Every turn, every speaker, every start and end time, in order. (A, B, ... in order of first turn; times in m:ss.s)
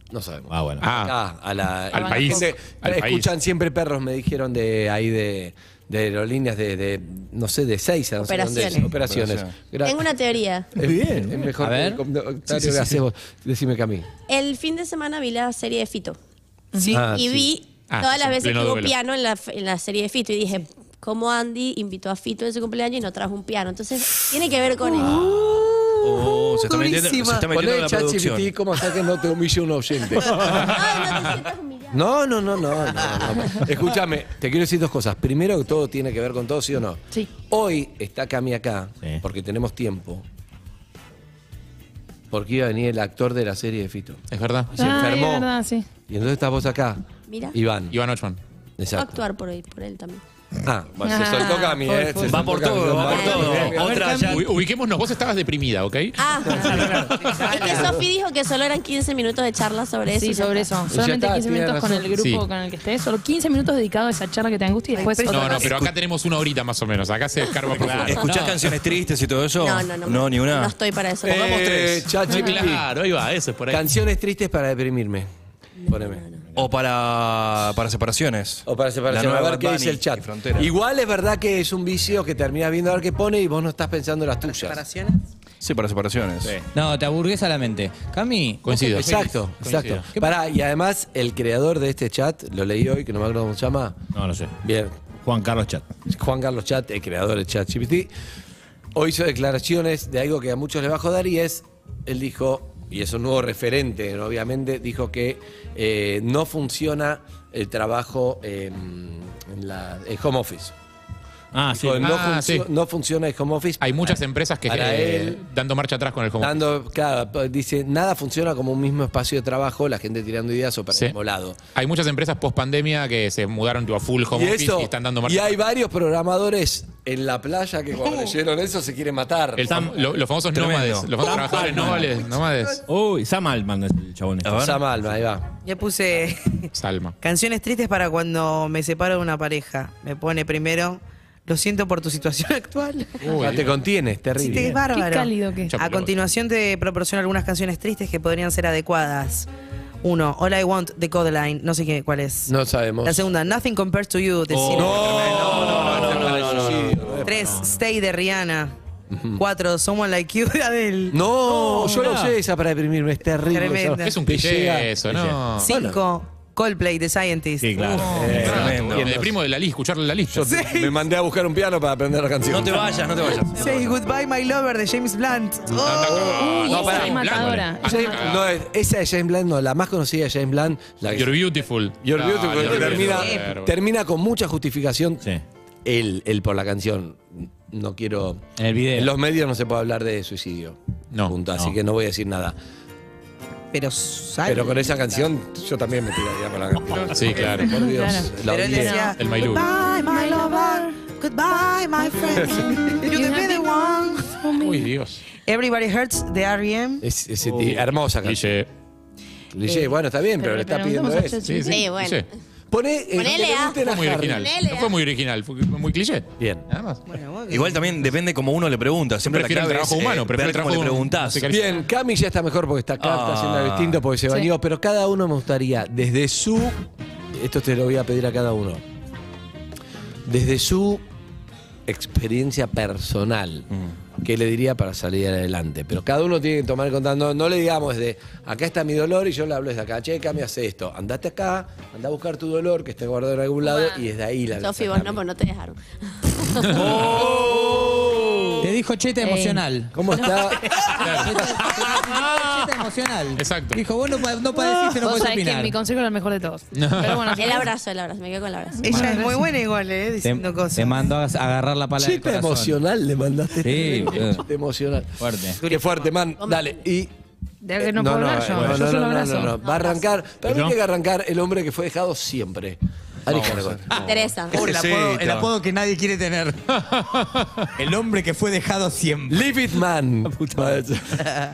0:00.1-0:10.1 A
0:00.5-0:00.8 B
0:00.8-0:01.1 C
0:01.9-0:03.3 C
0:08.2-0:08.9 D
0:09.0-0:09.5 E
0:09.8-0:10.7 D
0:10.7-0:14.1 A
0:10.8-0:11.5 B
0:11.6-0:12.0 F
0:12.5-0:13.0 B
0:14.3-0:16.2 D
0:16.8-0:17.1 G
0:16.9-0:17.5 A
0:17.1-0:25.2 D
0:17.9-0:18.9 C
0:24.8-0:27.5 G
0:25.1-0:25.3 E
0:26.0-0:28.5 E
0:27.5-0:31.0 A
0:30.6-0:32.0 D
0:31.9-0:40.2 A
0:42.3-0:44.2 A
0:44.3-0:44.7 C
0:44.7-0:45.5 A
0:44.7-0:45.9 H
0:46.1-0:47.0 A
0:47.3-0:47.6 D
0:47.5-0:47.9 A
0:47.9-0:48.4 C
0:48.8-0:49.2 A
0:48.9-0:50.2 D
0:50.6-0:54.1 A
0:51.0-0:52.4 H
0:52.2-0:54.5 E
0:53.0-0:53.7 D
0:53.3-0:53.7 B
0:53.8-0:54.4 F
0:54.2-0:57.3 C
0:56.2-0:56.7 D
0:56.5-0:58.0 G
0:56.5-0:58.0 A
0:57.4-1:00.7 D
1:00.1-1:05.6 H
1:00.9-1:02.1 A
1:02.2-1:02.4 C
1:04.9-1:05.8 G
1:05.2-1:08.4 C
1:07.7-1:08.3 B
1:07.8-1:10.8 E
1:09.6-1:11.5 D
1:11.2-1:12.9 A
1:11.3-1:12.2 E
1:12.3-1:13.8 C
1:13.7-1:15.3 A
1:15.8-1:16.4 D
1:15.9-1:16.2 A
1:16.6-1:20.7 E
1:18.6-1:24.8 A
1:24.4-1:25.2 G
1:25.6-1:26.6 E
1:26.7-1:29.3 F
1:28.6-1:30.0 C
1:28.9-1:34.0 A
1:34.1-1:34.5 B
1:34.6-1:34.9 A
1:35.2-1:35.8 B
1:36.1-1:38.1 A
1:38.9-1:50.7 A
1:51.5-1:52.2 B
1:51.7-1:55.4 A
1:52.0-1:52.7 C
1:53.8-1:56.6 C
1:56.4-2:01.6 A
2:01.7-2:05.6 C
2:04.3-2:09.7 A
2:09.6-2:12.8 C
2:09.6-2:09.9 B
2:10.5-2:11.9 E
2:11.2-2:12.1 B
2:12.8-2:14.8 B
2:14.4-2:14.8 E
2:14.5-2:15.5 A
2:15.6-2:16.7 G
2:16.7-2:17.2 C
2:17.2-2:23.3 G
2:23.2-2:23.7 C
2:23.4-2:24.8 A
2:24.4-2:29.5 G
2:24.8-2:25.7 H
2:25.7-2:26.1 C
2:30.0-2:32.5 G
2:32.5-2:33.3 A
2:33.0-2:35.6 G
2:34.5-2:37.1 E
2:34.8-2:37.6 A
2:37.2-2:38.7 G
2:37.3-2:37.7 B
2:39.1-2:39.4 A
2:39.4-2:41.2 G
2:41.1-2:44.9 A
2:41.8-2:42.3 B
2:43.5-2:44.2 G
2:44.0-2:45.7 C
2:45.6-2:48.3 G
2:45.6-2:46.0 A
2:47.6-2:48.8 B
2:48.1-2:49.3 A
2:48.2-2:49.2 E
2:48.2-2:50.6 C
2:50.3-2:53.1 A
2:50.4-2:51.0 G
2:52.5-2:54.0 E
2:53.5-2:56.8 G
2:55.8-3:01.4 A
2:55.8-2:58.5 C
2:56.3-2:58.3 H
3:01.1-3:03.7 C
3:02.0-3:05.2 A
3:02.6-3:03.5 G
3:05.8-3:10.8 A
3:08.6-3:09.1 F
3:11.3-3:12.6 A
3:13.7-3:15.0 G
3:14.4-3:19.1 A
3:17.1-3:17.7 C
3:17.6-3:19.1 H
3:18.4-3:24.4 G
3:19.2-3:19.7 C
3:20.0-3:20.9 H
3:22.4-3:24.9 H
3:24.6-3:25.2 C
3:25.4-3:27.0 G
3:27.0-3:28.5 A
3:27.5-3:28.7 C
3:29.5-3:31.4 A
3:30.4-3:31.9 H
3:31.4-3:32.3 C
3:31.7-3:32.3 D
3:32.7-3:34.5 A
3:33.1-3:35.0 D
3:33.8-3:37.0 C
3:36.4-3:36.6 A
3:37.0-3:37.9 G
3:37.5-3:41.6 E
3:39.2-3:41.9 C
3:41.5-3:48.8 A
3:43.0-3:44.0 E
3:50.2-3:51.0 A
3:51.9-4:05.2 A
4:04.6-4:06.8 D
4:06.6-4:07.0 C
4:06.7-4:08.2 E
4:08.6-4:15.7 F
4:09.9-4:10.8 A
4:11.0-4:11.6 C
4:13.4-4:13.8 C
4:14.5-4:17.7 H
4:16.7-4:17.6 C
4:17.3-4:18.9 D
4:18.8-4:19.4 H
4:18.8-4:21.1 G
4:20.2-4:22.8 F
4:22.0-4:27.1 A
4:23.6-4:24.4 F
4:25.2-4:25.6 F
4:25.6-4:26.1 G
4:26.4-4:26.8 D
4:27.6-4:29.6 H
4:27.8-4:34.8 A
4:28.5-4:28.8 B
4:29.6-4:30.1 D
4:30.4-4:30.8 B
4:33.3-4:34.2 E
4:33.9-4:34.7 D
4:34.5-4:36.7 F
4:34.7-4:35.4 E
4:36.8-4:37.7 C
4:37.8-4:39.5 F
4:39.3-4:41.3 A